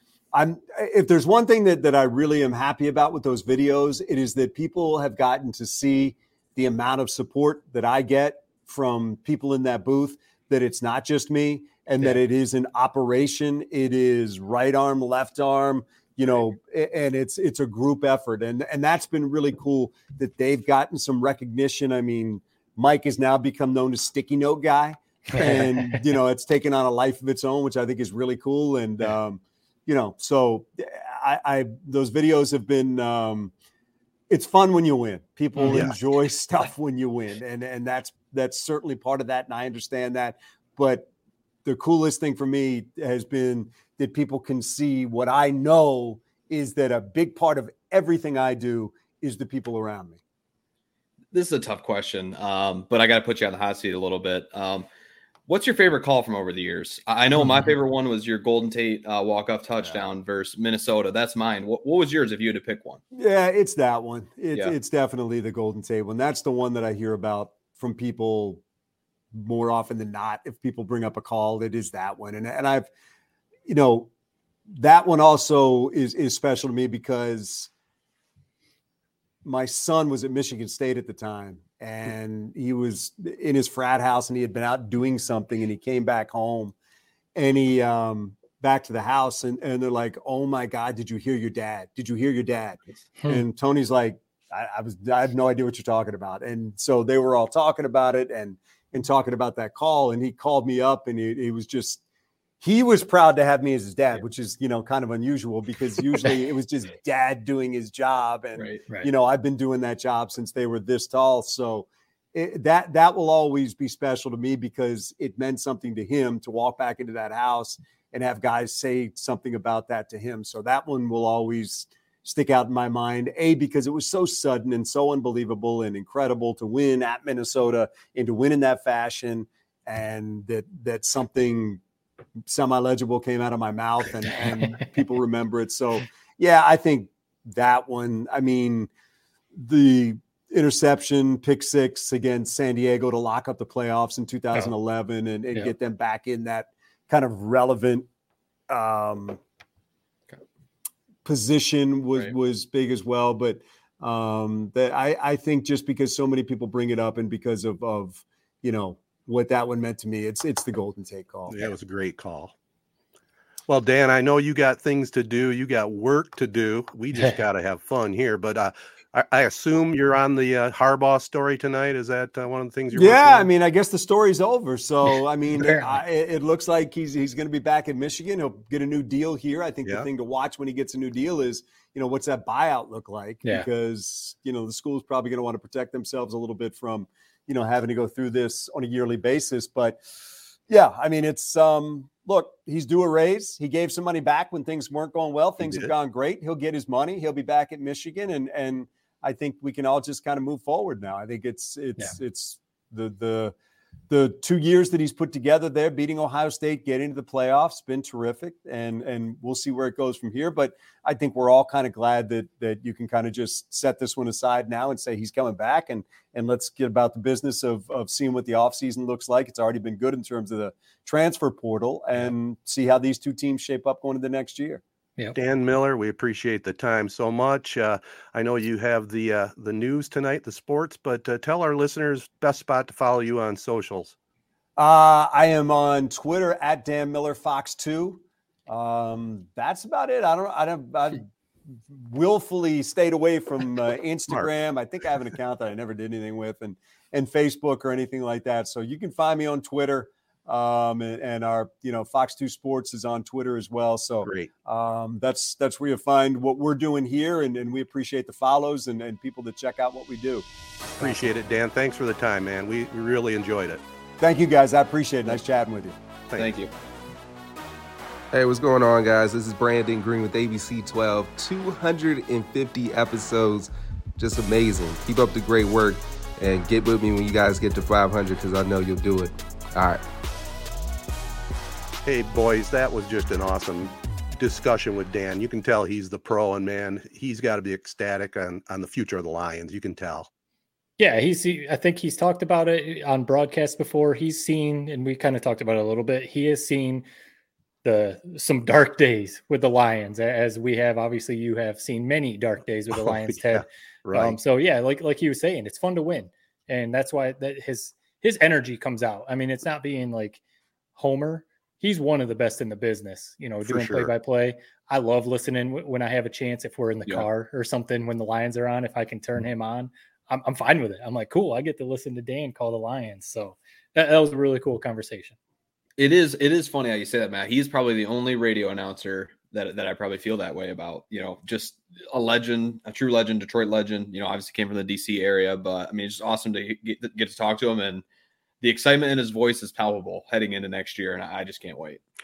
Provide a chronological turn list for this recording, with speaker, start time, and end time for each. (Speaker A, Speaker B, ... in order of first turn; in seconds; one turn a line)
Speaker A: 0.3-33.5
Speaker B: 25.3-26.0
Speaker A: 34.3-41.1
Speaker B: 35.6-35.8
Speaker C: 35.7-35.9
Speaker A: 41.6-50.2
Speaker D: 51.3-54.9
Speaker D: 55.5-63.0
Speaker A: 63.1-68.6
Speaker A: 69.3-72.9
Speaker A: 73.7-74.1
Speaker A: 74.7-77.7
Speaker A: 79.4-86.7
Speaker A: 87.3-102.0
Speaker A: 102.6-131.8
Speaker A: 132.4-138.9
Speaker A: 139.5-148.1
Speaker A: 148.7-149.4
Speaker A: 151.2-161.6
Speaker C: 161.5-162.5
Speaker C: 163.7-173.5
Speaker A: 172.9-190.0
Speaker B: 175.5-176.0
Speaker A: 190.7-203.5
Speaker A: 204.1-224.8
Speaker C: 225.3-234.1
Speaker A: 234.8-260.4
Speaker C: 254.2-254.5
Speaker C: 261.0-263.8
Speaker A: 261.0-261.3
Speaker A: 264.2-266.0
Speaker D: 266.4-266.7
Speaker E: 268.3-280.0
Speaker C: 282.0-290.3
Speaker B: 291.0-297.0
Speaker B: 297.8-310.4
Speaker C: 302.9-304.4
Speaker B: 310.9-325.4
Speaker C: 313.6-314.1
Speaker D: 326.0-338.0
Speaker D: 338.6-342.0